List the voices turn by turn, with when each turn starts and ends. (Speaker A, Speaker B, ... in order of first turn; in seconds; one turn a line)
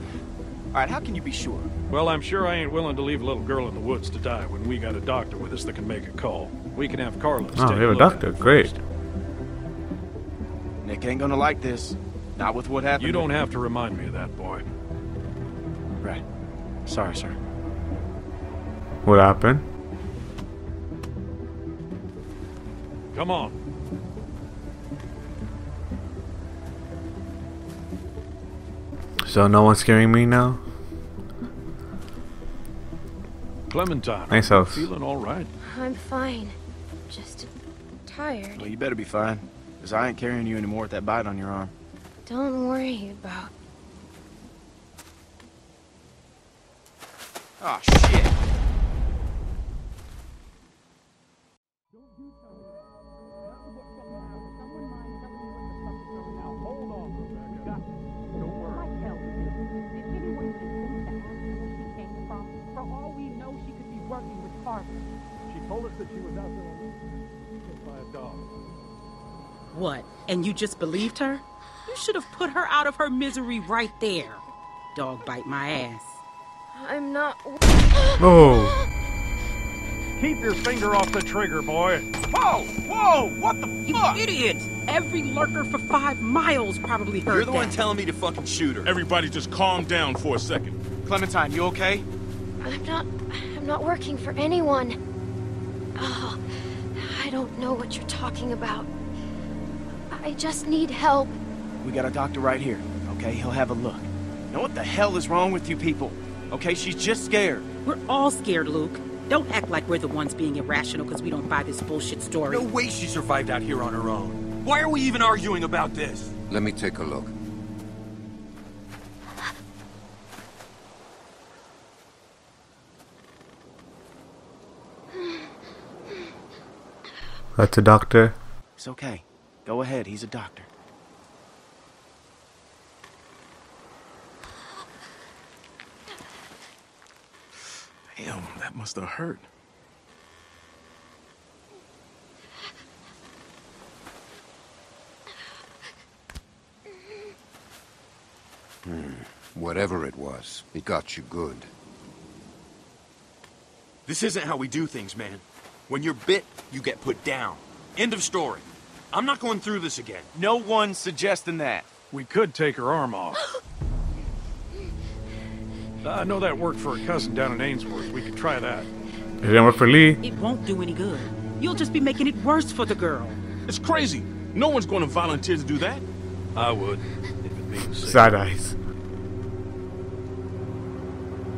Speaker A: 0.7-1.7
Speaker B: 1.9-8.8
Speaker C: 7.5-8.7
Speaker A: 10.8-13.3
Speaker B: 13.0-14.6
Speaker A: 16.9-17.4
Speaker C: 19.0-19.6
Speaker B: 23.1-23.6
Speaker C: 29.3-30.6
Speaker B: 33.7-35.5
Speaker C: 34.3-34.9
Speaker D: 35.6-36.5
Speaker D: 37.1-37.5
Speaker D: 38.0-38.7
Speaker A: 38.5-41.7
Speaker D: 42.2-43.5
Speaker A: 47.6-48.4
Speaker E: 58.6-65.0
Speaker B: 65.6-66.2
Speaker E: 69.7-76.2
Speaker D: 76.7-77.6
Speaker C: 78.2-78.8
Speaker B: 80.2-82.1
Speaker A: 82.3-84.2
Speaker E: 83.8-87.8
Speaker F: 87.3-88.9
Speaker G: 88.9-90.8
Speaker A: 91.0-92.0
Speaker D: 92.6-95.0
Speaker D: 96.0-98.9
Speaker D: 100.1-101.3
Speaker A: 101.8-107.7
Speaker E: 107.8-112.7
Speaker F: 112.5-116.3
Speaker H: 116.5-117.3
Speaker C: 127.5-128.3
Speaker A: 128.8-130.7
Speaker G: 138.1-139.4
Speaker H: 148.8-151.7
Speaker F: 154.1-160.3
Speaker A: 160.3-161.8
Speaker B: 162.1-163.5
Speaker B: 166.0-168.9
Speaker C: 169.4-170.2
Speaker E: 170.2-173.4
Speaker G: 173.7-176.0
Speaker B: 176.5-178.3
Speaker C: 178.0-178.8